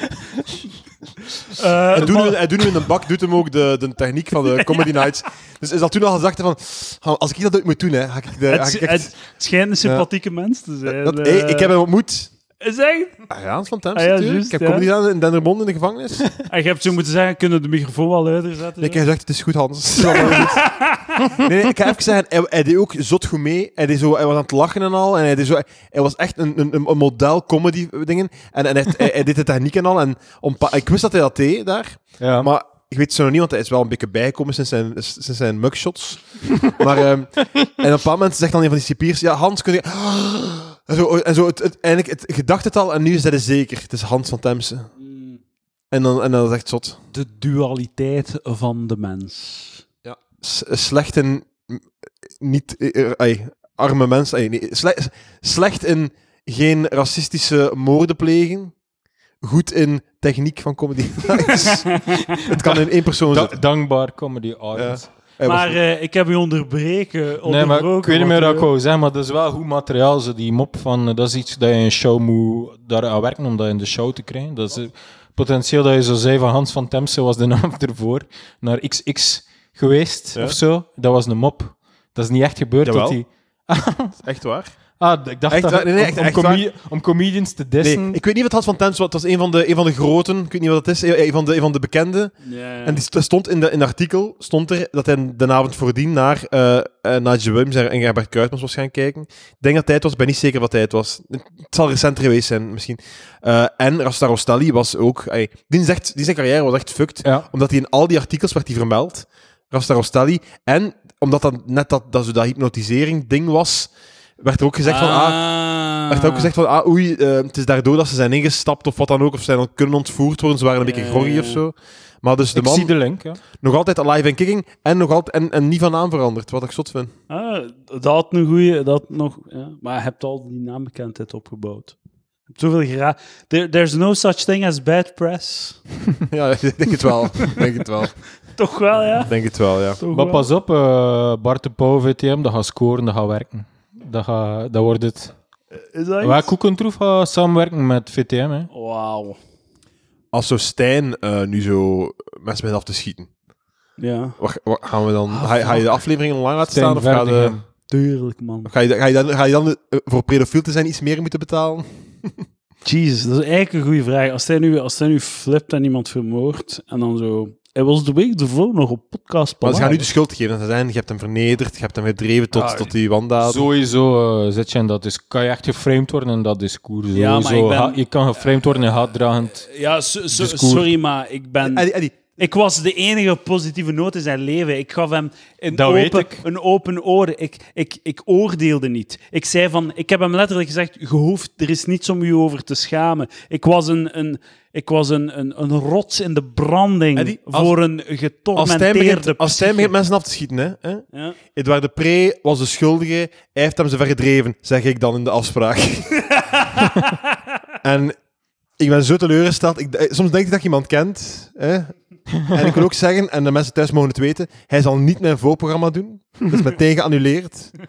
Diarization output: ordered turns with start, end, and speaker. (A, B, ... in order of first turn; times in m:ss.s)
0:01.4-0:02.4 A
0:01.9-0:09.1 B
0:04.6-0:04.9 A
0:08.5-0:11.7 A
0:10.8-0:12.3 B
0:12.6-0:13.2 A
0:13.3-0:16.3 B
0:13.9-0:14.9 A
0:16.4-0:19.0 A
0:18.8-0:20.7 B
0:20.0-0:21.3 A
0:21.3-0:44.9 B
0:32.2-0:32.5 C
0:45.0-0:45.4 A
0:45.9-0:47.0 B
0:47.1-0:49.8 A
0:50.0-0:58.7 B
0:59.4-1:03.6 B
1:01.5-1:02.2 A
1:02.3-1:05.1 C
1:04.7-1:05.7 B
1:05.4-1:08.7 A
1:07.4-1:24.2 C
1:22.8-1:23.2 B
1:24.2-1:24.7 B
1:25.0-1:28.2 C
1:25.5-1:26.6 B
1:27.8-2:02.9 B
1:32.4-1:33.0 A
1:54.8-1:56.5 A
2:00.8-2:01.6 A
2:02.5-2:03.4 C
2:03.5-2:07.1 B
2:07.3-2:11.9 A
2:12.5-2:15.8 A
2:16.3-2:18.2 B
2:18.6-2:19.3 A
2:19.2-2:20.0 B
2:20.0-2:20.4 A
2:20.1-2:25.3 C
2:25.9-2:26.5 A
2:26.2-2:28.7 C
2:28.7-2:29.4 A
2:30.3-2:33.3 B
2:34.0-2:34.4 A
2:34.4-2:37.5 B
2:35.3-2:35.9 A
2:36.7-2:37.6 C
2:37.9-2:38.7 A
2:38.6-2:42.4 B
2:42.8-2:50.1 A
2:49.6-2:53.6 B
2:53.4-2:59.7 C
2:57.1-2:58.0 A
2:59.5-3:19.9 A
3:00.3-3:00.9 C
3:01.6-3:02.2 B
3:05.7-3:06.4 C
3:17.2-3:17.7 B
3:18.6-3:26.9 B
3:26.3-3:26.9 A
3:27.8-3:28.2 B
3:28.8-3:37.8 B